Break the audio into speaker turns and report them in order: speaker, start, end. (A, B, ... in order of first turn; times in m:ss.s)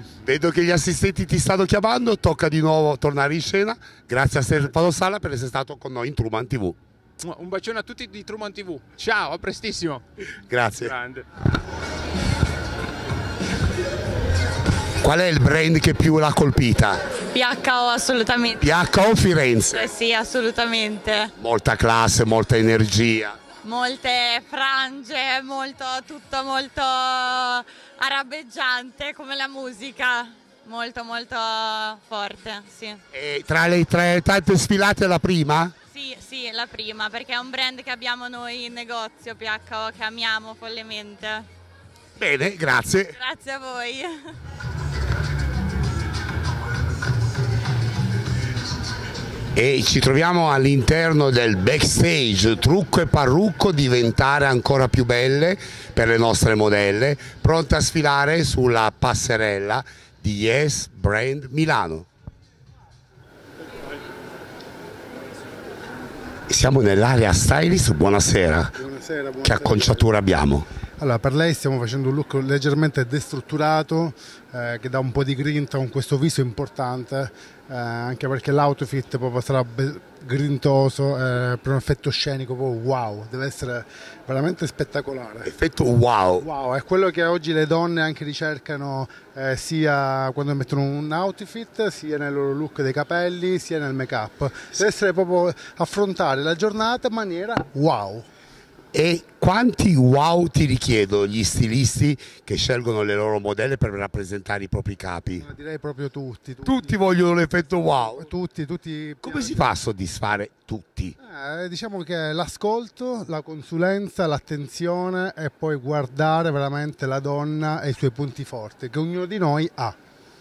0:00.2-0:06.8 A
0:07.2-0:10.0 B
0:10.5-0:10.9 A
0:10.8-0:11.2 B
0:15.0-0:17.0 A
0:17.3-0:18.7 C
0:18.6-0:20.0 A
0:19.7-0:21.3 C
0:21.4-0:23.4 A
0:23.6-0:33.0 C
0:33.1-0:35.8 A
0:35.9-0:41.5 C
0:42.2-0:43.2 A
0:43.1-0:44.2 C
0:49.5-1:02.1 A
1:06.5-1:08.8 A
1:08.8-1:10.1 D
1:09.4-1:10.7 A
1:11.0-1:25.5 D
1:25.4-1:26.5 A
1:26.4-1:38.2 D
1:38.9-1:45.5 A
1:45.4-1:47.0 D
1:46.6-1:48.3 A
1:48.1-1:49.6 D
1:49.2-1:51.2 A
1:51.2-1:59.9 D